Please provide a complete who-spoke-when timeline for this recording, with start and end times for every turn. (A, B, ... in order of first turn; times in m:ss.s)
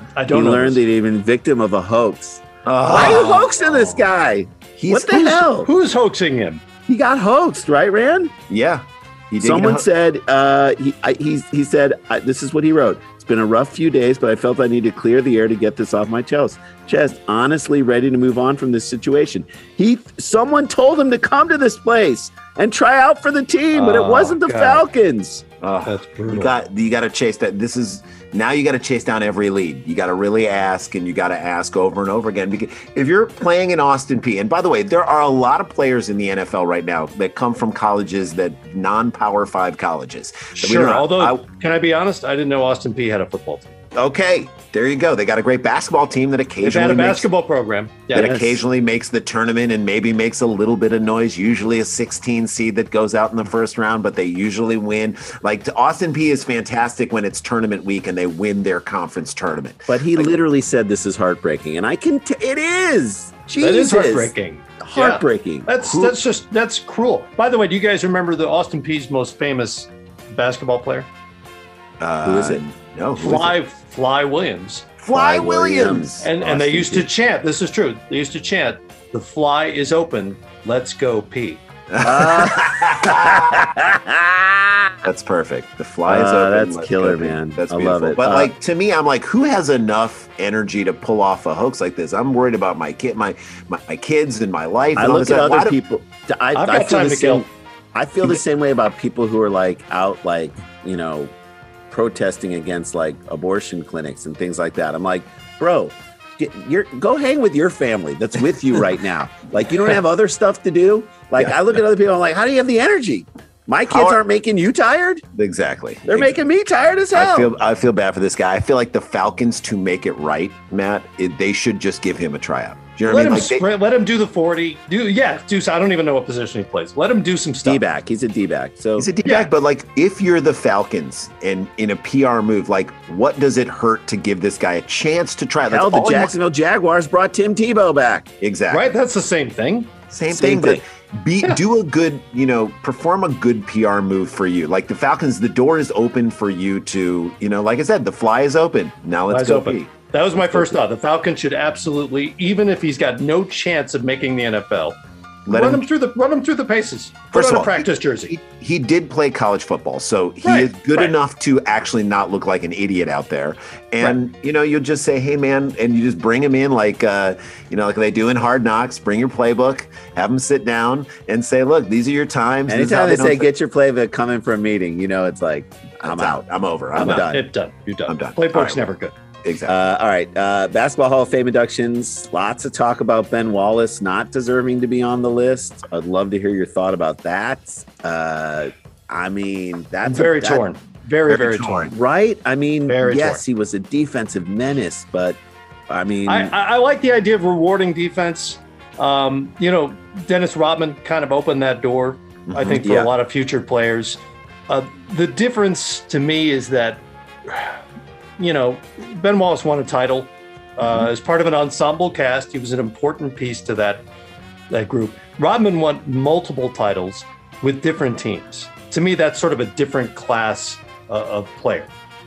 0:00.2-0:00.8 A
0:00.3-0:05.7 B
0:02.7-0:03.4 C
0:02.9-0:03.5 A
0:04.8-0:05.5 C
0:05.4-0:06.6 A
0:06.9-0:08.3 B
0:08.5-0:09.9 C
0:09.4-0:25.4 B
0:23.7-0:24.8 A
0:25.6-0:41.4 C
0:25.9-0:26.5 A
0:40.6-0:43.7 A
0:44.0-0:47.3 C
0:46.6-0:48.3 A
0:48.1-1:00.4 C
0:48.2-0:48.6 B
0:59.9-1:05.9 B
1:03.6-1:11.1 A
1:12.0-1:13.5 C
1:12.2-1:12.6 B
1:13.2-1:14.9 A
1:15.0-1:17.1 C
1:15.1-1:16.1 B
1:16.2-1:21.6 A
1:21.9-1:23.7 C
1:22.0-1:25.0 B
1:25.0-1:35.8 C
1:26.1-1:28.5 B
1:35.0-1:41.3 B
1:36.6-1:37.4 A
1:41.9-1:55.2 B
1:53.9-1:54.2 C
1:55.3-1:56.4 C
1:56.1-1:57.5 B
1:57.1-2:03.6 C
2:03.1-2:07.8 A
2:07.6-2:09.1 B
2:09.0-2:16.4 C
2:15.7-2:18.3 B
2:18.4-2:18.8 C
2:18.7-2:19.9 A
2:20.1-2:30.8 C
2:20.3-2:20.8 B
2:29.3-2:35.0 A
2:35.5-2:35.9 C
2:35.5-2:38.3 A
2:37.3-2:53.5 C
2:40.4-2:41.1 A
2:52.7-2:56.4 B
2:56.0-2:57.3 C
2:57.0-2:57.4 B
2:57.0-2:59.1 A
2:58.1-2:58.9 C
2:59.4-2:59.8 C
2:59.7-3:10.6 B
3:10.0-3:11.9 A
3:11.3-3:11.9 C
3:11.9-3:15.4 B
3:12.9-3:13.4 A
3:15.9-3:16.5 B
3:16.3-3:27.8 A
3:22.5-3:23.0 C
3:28.4-3:34.0 A
3:34.7-3:41.9 A